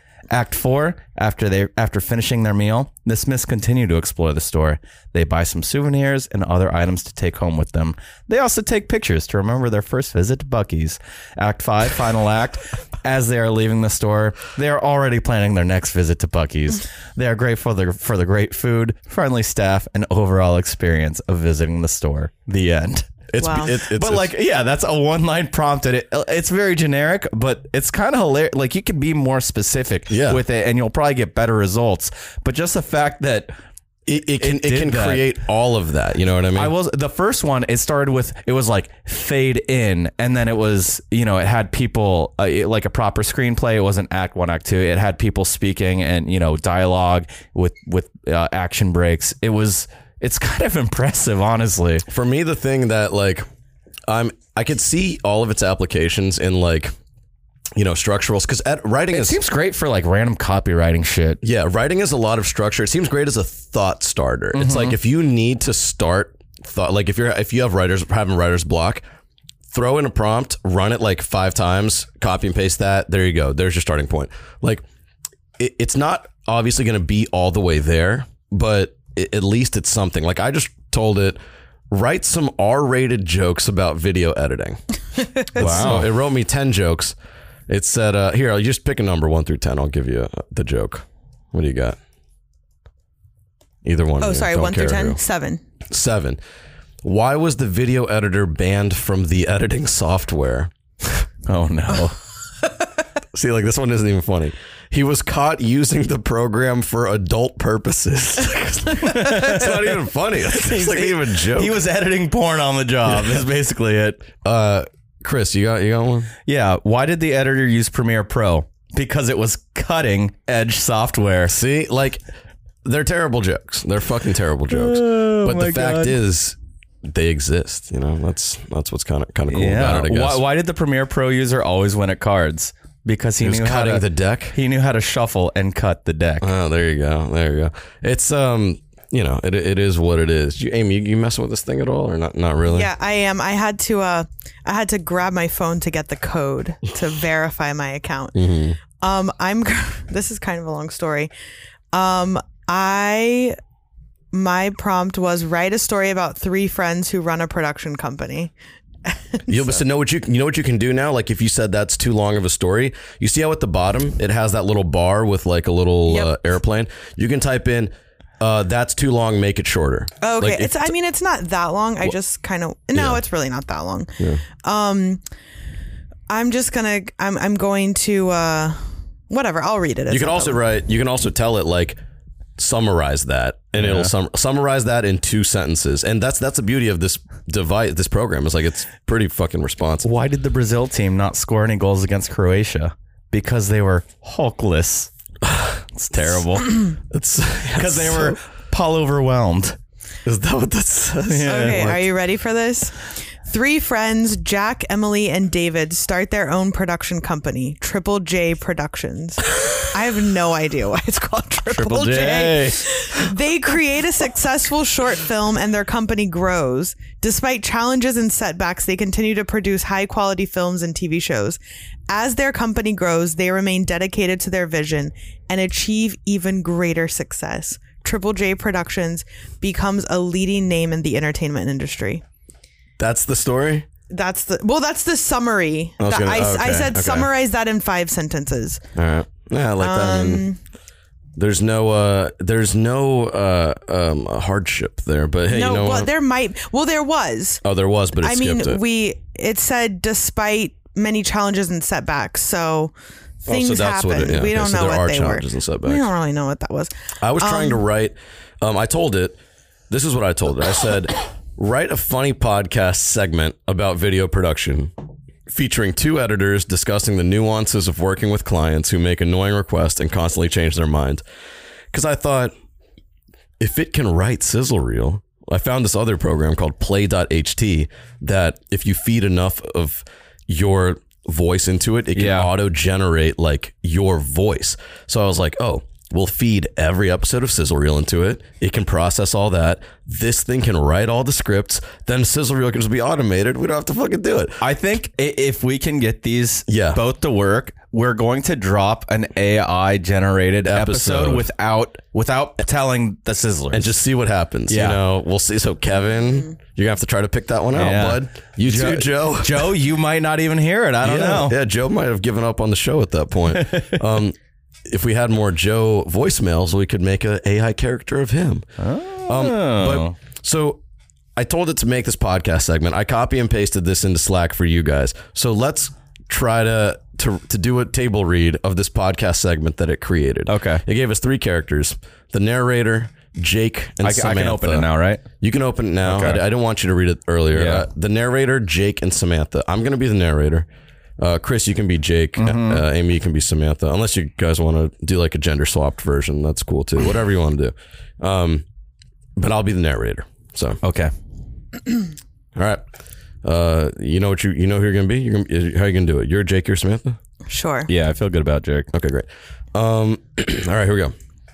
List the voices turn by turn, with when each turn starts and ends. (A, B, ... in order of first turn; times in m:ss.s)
0:00.3-0:33.5 A
0:23.3-0:24.3 B
0:23.4-0:23.7 C
0:30.1-0:30.4 B
0:34.0-0:36.7 B
0:34.4-0:35.3 A
0:36.5-0:52.0 A
0:52.1-0:53.4 B
0:54.1-0:56.9 B
0:57.7-0:59.4 B
0:59.1-1:01.4 A
1:01.4-1:09.0 B
1:04.5-1:05.0 A
1:09.7-1:14.8 B
1:15.6-1:21.4 B
1:21.9-1:24.8 B
1:25.5-1:25.8 C
1:25.5-1:27.1 B
1:25.5-1:26.1 A
1:27.7-1:32.0 B
1:33.8-1:35.2 B
1:34.2-1:35.6 C
1:35.9-1:36.4 B
1:37.0-1:41.2 B
1:41.5-1:42.2 A
1:43.3-1:51.8 B
1:49.0-1:50.0 A
1:50.5-1:54.2 A
1:53.1-1:53.4 B
1:54.4-1:56.3 B
1:56.4-2:01.5 A
2:01.5-2:02.2 B
2:02.8-2:10.4 B
2:04.7-2:06.2 A
2:09.5-2:16.5 A
2:13.4-2:14.6 B
2:16.4-2:22.9 B
2:22.7-2:31.3 C
2:28.3-2:28.8 B
2:31.9-2:33.6 C
2:34.3-2:38.5 C
2:39.1-2:39.8 C
2:39.5-2:50.9 B
2:46.1-2:46.3 C
2:50.2-2:55.2 C
2:52.9-2:53.2 B
2:56.3-3:00.6 C
3:00.1-3:02.0 B
3:02.6-3:10.1 B
3:03.8-3:04.1 A
3:10.0-3:15.1 A
3:15.4-3:15.8 B
3:15.9-3:16.8 A
3:17.0-3:18.4 B
3:17.8-3:19.8 A
3:20.2-3:22.0 B
3:21.2-3:21.9 A
3:21.4-3:52.2 C
3:31.8-3:32.7 A
3:53.0-3:53.9 B
3:54.1-3:58.8 C
3:56.0-3:57.3 B
3:59.0-4:00.4 B
3:59.8-4:00.6 C
4:01.4-4:06.1 B
4:05.5-4:07.6 C
4:07.6-4:08.8 B
4:08.2-4:12.9 C
4:13.4-4:17.8 C
4:13.5-4:16.1 B
4:17.2-4:19.4 B
4:19.9-4:24.9 B
4:25.5-4:31.2 B
4:31.9-4:32.5 B
4:33.6-4:54.6 B
4:42.1-4:42.5 A
4:54.6-5:04.0 A
4:56.7-4:57.0 B
5:00.6-5:01.5 B
5:03.7-5:09.8 B
5:04.7-5:05.0 A
5:07.7-5:11.6 A
5:11.0-5:14.3 B
5:13.5-5:14.0 A
5:14.9-5:18.7 B
5:18.8-5:20.1 A
5:19.3-5:20.8 B
5:21.4-5:34.9 B
5:30.5-5:30.8 A
5:34.0-5:35.2 A
5:35.4-5:40.7 B
5:36.0-5:36.4 A
5:37.5-5:37.8 A
5:41.2-5:48.6 B
5:42.4-5:42.8 A
5:49.4-5:50.8 B
5:50.8-5:51.1 A
5:52.5-5:52.8 B
5:53.4-5:57.2 B
5:57.5-5:57.9 C
5:57.9-5:58.9 A
5:58.9-6:01.1 B